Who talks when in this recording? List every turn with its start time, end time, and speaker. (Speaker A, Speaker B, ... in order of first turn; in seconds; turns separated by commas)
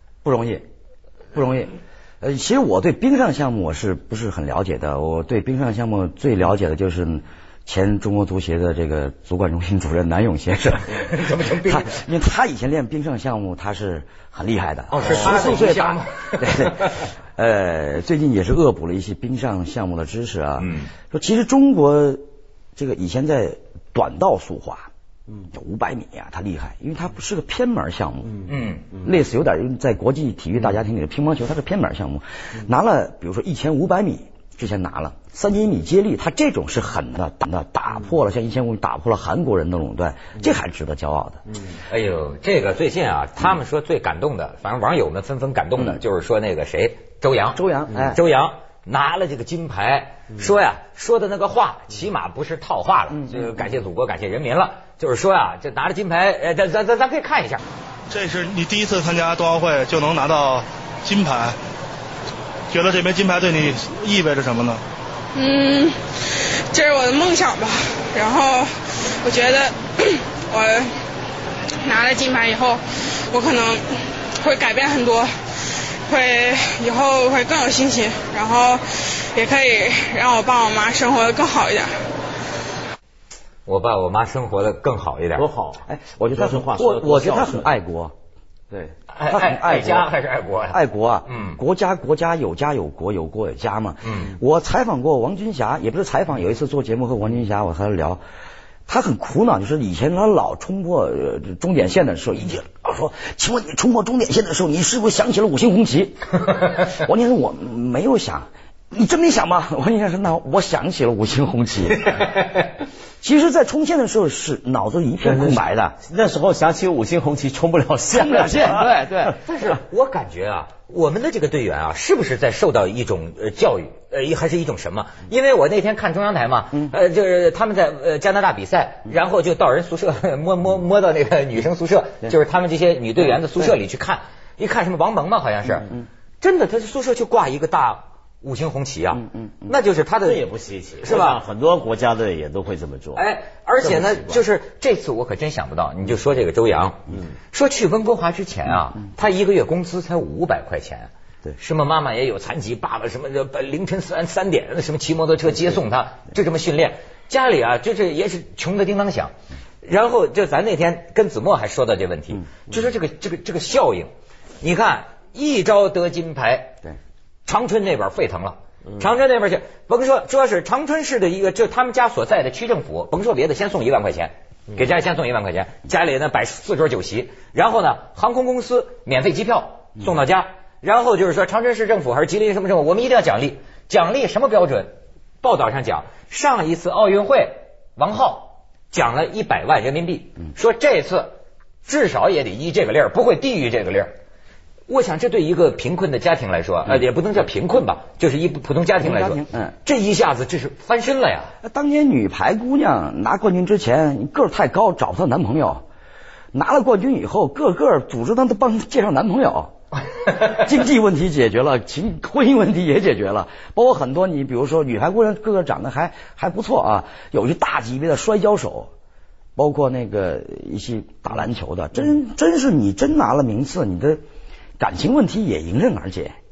Speaker A: 0.2-0.6, Speaker A: 1.3-11.1, Speaker B: 10.9-12.0, Speaker A: 11.6-22.2, Speaker B: 14.9-17.1, Speaker C: 15.1-15.6, Speaker B: 20.6-20.9, Speaker A: 22.8-24.9, Speaker A: 25.5-28.5, Speaker B: 28.5-28.9, Speaker A: 29.0-41.4, Speaker B: 41.9-57.6, Speaker A: 47.5-48.2, Speaker A: 53.1-53.5, Speaker D: 58.1-61.6, Speaker D: 62.7-64.8, Speaker E: 65.3-70.9, Speaker E: 71.8-73.8, Speaker E: 74.4-75.3, Speaker E: 76.1-81.9, Speaker B: 83.7-85.5, Speaker C: 85.4-87.7, Speaker A: 85.9-88.1, Speaker B: 89.1-91.6, Speaker A: 89.3-90.1, Speaker A: 90.7-98.2, Speaker B: 94.0-94.3, Speaker A: 98.9-112.1, Speaker A: 113.2-116.0, Speaker C: 115.2-119.0, Speaker A: 118.1-119.4, Speaker B: 119.3-140.4, Speaker A: 139.4-139.7, Speaker C: 140.2-143.2, Speaker B: 141.0-141.4, Speaker B: 143.2-164.1, Speaker C: 143.8-144.4, Speaker B: 164.6-166.8, Speaker B: 167.5-194.1, Speaker B: 194.9-201.5, Speaker A: 199.0-199.7, Speaker A: 201.6-205.8, Speaker A: 206.5-209.7, Speaker A: 210.3-218.9, Speaker A: 219.6-224.2, Speaker A: 224.8-226.3